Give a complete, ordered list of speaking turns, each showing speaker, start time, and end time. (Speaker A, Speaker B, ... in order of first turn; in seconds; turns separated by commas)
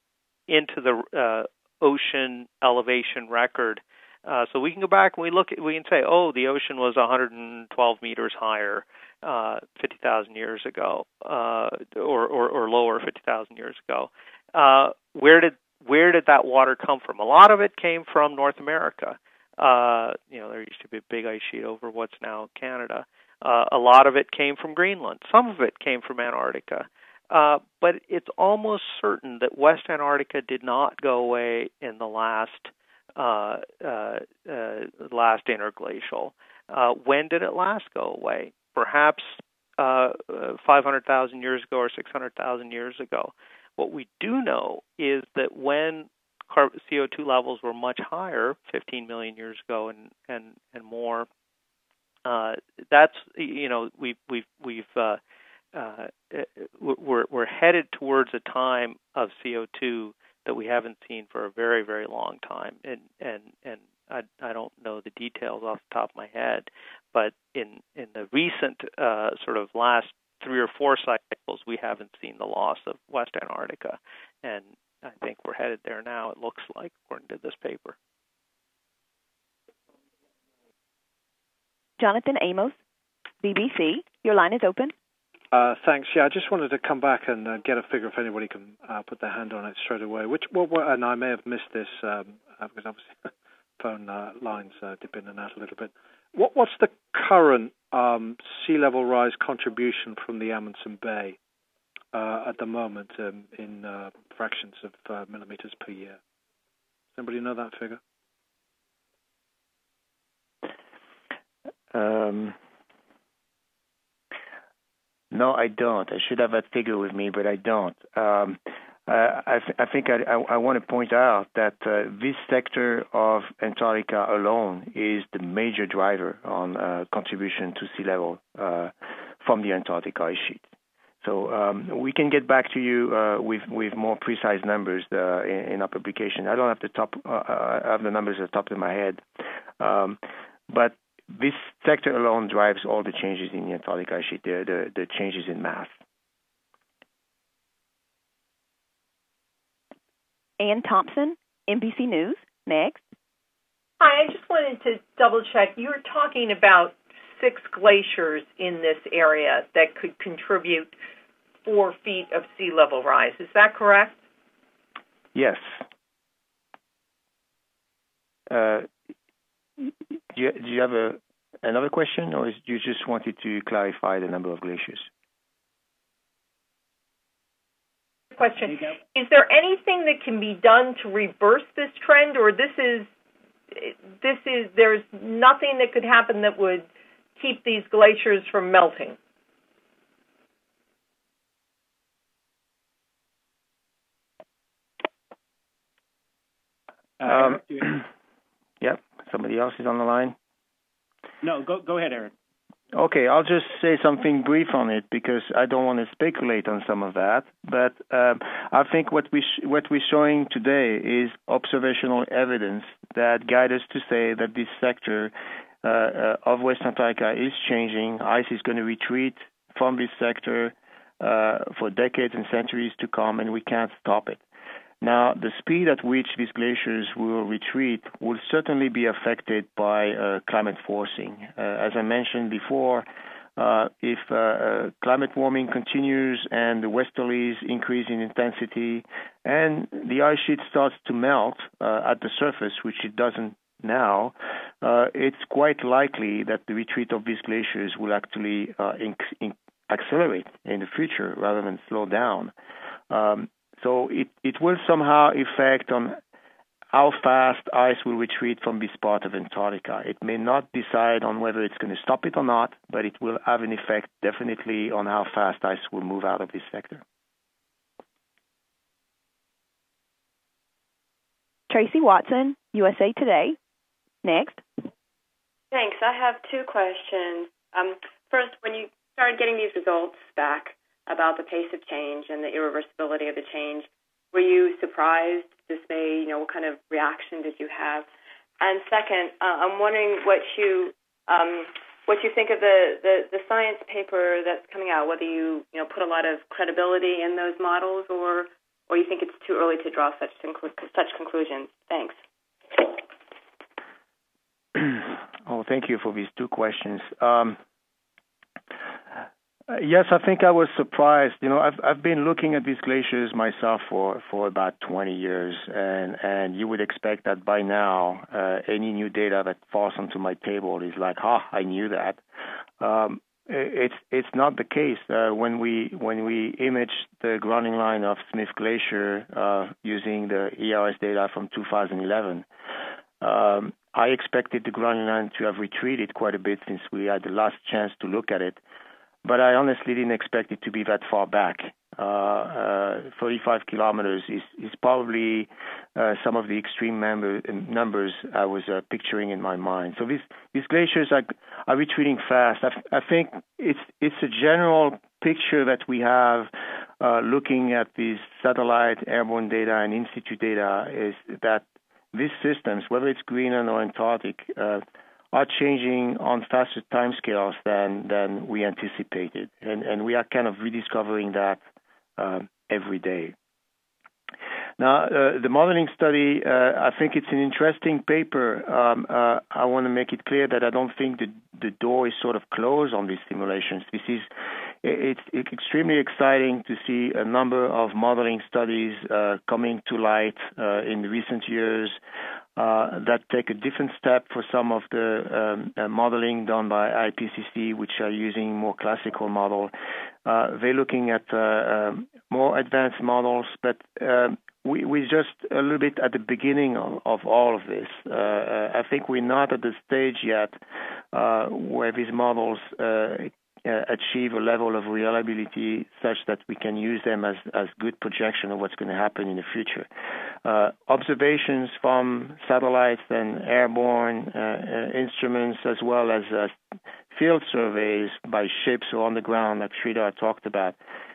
Speaker A: 0.5-51.3, Speaker A: 52.2-55.2, Speaker A: 55.7-78.0, Speaker B: 82.0-82.7, Speaker B: 83.4-84.9, Speaker C: 85.5-101.4, Speaker C: 102.1-106.2, Speaker C: 107.1-108.0, Speaker D: 111.9-112.5, Speaker D: 115.3-130.6, Speaker D: 131.2-139.2, Speaker D: 139.8-145.9, Speaker B: 150.6-153.0, Speaker E: 154.0-160.9, Speaker E: 161.6-164.2, Speaker D: 165.3-165.8, Speaker D: 168.5-168.9, Speaker D: 169.8-175.1, Speaker E: 178.3-183.1, Speaker F: 178.7-179.0, Speaker E: 183.7-189.2, Speaker F: 197.2-197.9, Speaker D: 197.3-197.9, Speaker D: 198.8-200.4, Speaker F: 201.4-202.3, Speaker D: 202.9-224.4, Speaker D: 225.0-233.1, Speaker D: 233.6-252.5, Speaker D: 253.1-256.2, Speaker D: 256.9-267.0, Speaker B: 271.7-273.6, Speaker B: 274.2-274.6, Speaker G: 275.7-288.1, Speaker G: 288.6-302.1, Speaker D: 304.7-307.6, Speaker D: 309.7-322.2, Speaker D: 322.8-332.5, Speaker D: 333.2-338.6, Speaker D: 339.2-371.6, Speaker D: 372.2-373.3, Speaker D: 374.8-384.3, Speaker D: 384.8-392.0, Speaker D: 392.6-399.7, Speaker D: 400.2-410.6, Speaker D: 411.1-419.9, Speaker D: 420.4-426.6, Speaker D: 427.1-430.8